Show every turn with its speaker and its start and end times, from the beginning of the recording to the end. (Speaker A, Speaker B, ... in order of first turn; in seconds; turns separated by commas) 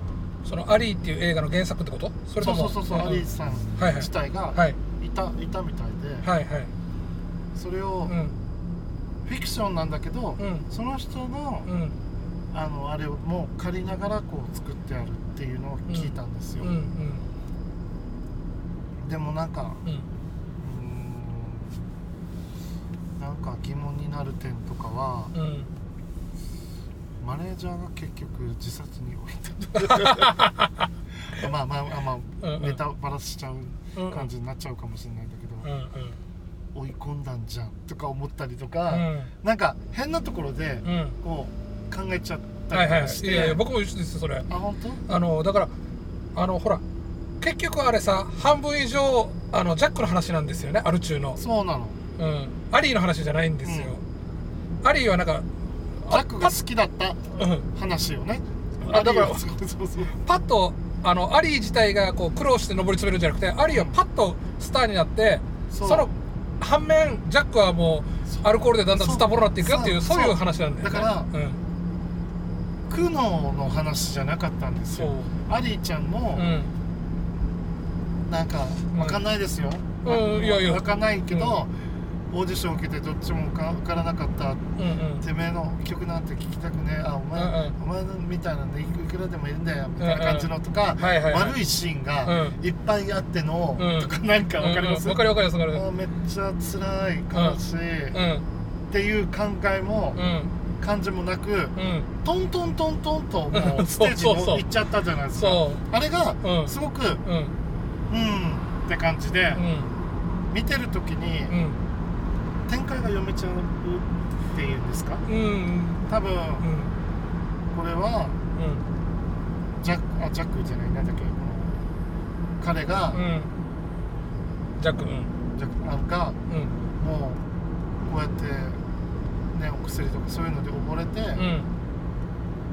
Speaker A: 0.4-3.2, Speaker B: 2.4-6.3, Speaker A: 3.8-4.8, Speaker A: 6.2-6.7, Speaker B: 7.5-8.2, Speaker A: 8.1-8.3, Speaker B: 9.3-11.7, Speaker A: 10.4-10.7, Speaker A: 11.7-12.0, Speaker B: 12.5-16.7, Speaker A: 15.9-17.3, Speaker B: 19.0-19.8, Speaker B: 20.6-21.8, Speaker B: 23.2-25.3, Speaker A: 25.3-25.7, Speaker B: 27.2-30.5, Speaker A: 29.8-30.9, Speaker B: 31.1-35.7, Speaker A: 32.4-32.8, Speaker A: 34.0-34.3, Speaker A: 35.6-36.2, Speaker B: 36.7-43.6, Speaker A: 38.9-39.3, Speaker A: 40.9-41.2, Speaker A: 42.7-44.5, Speaker B: 44.5-45.1, Speaker A: 45.1-45.7, Speaker A: 46.4-46.8, Speaker A: 47.4-51.4, Speaker B: 51.4-52.0, Speaker A: 52.2-54.0, Speaker B: 53.6-54.0, Speaker A: 54.8-56.6, Speaker B: 56.1-60.2, Speaker A: 57.4-57.7, Speaker A: 58.8-59.4, Speaker A: 60.2-71.6, Speaker B: 63.7-64.0, Speaker B: 65.7-66.1, Speaker B: 68.3-71.3, Speaker B: 72.9-76.6, Speaker A: 74.9-75.3, Speaker A: 76.3-76.7, Speaker B: 78.3-81.8, Speaker A: 78.9-79.2, Speaker A: 80.0-81.6, Speaker B: 82.3-84.7, Speaker A: 84.8-85.2, Speaker B: 85.2-98.2, Speaker A: 87.3-87.8, Speaker A: 90.0-91.6, Speaker A: 92.2-92.6, Speaker A: 93.8-95.8, Speaker A: 97.3-97.6, Speaker A: 98.1-98.5, Speaker B: 98.9-100.2, Speaker A: 100.2-100.5, Speaker B: 100.8-107.2, Speaker A: 101.8-102.1, Speaker A: 103.5-104.7, Speaker A: 105.4-105.8, Speaker A: 106.4-106.7, Speaker A: 107.2-107.5, Speaker B: 108.1-109.7, Speaker A: 109.6-109.9, Speaker B: 110.5-111.6, Speaker A: 111.5-111.8, Speaker B: 112.7-115.2, Speaker A: 115.3-116.1, Speaker B: 116.1-116.7, Speaker A: 116.6-116.9, Speaker B: 117.7-118.4, Speaker A: 118.6-118.8, Speaker B: 119.8-121.9, Speaker B: 122.6-123.2, Speaker A: 123.1-123.5, Speaker A: 124.8-125.3, Speaker B: 125.6-126.4, Speaker A: 126.5-126.8, Speaker B: 127.0-127.4, Speaker B: 128.0-128.9, Speaker B: 129.5-131.5, Speaker A: 131.4-131.7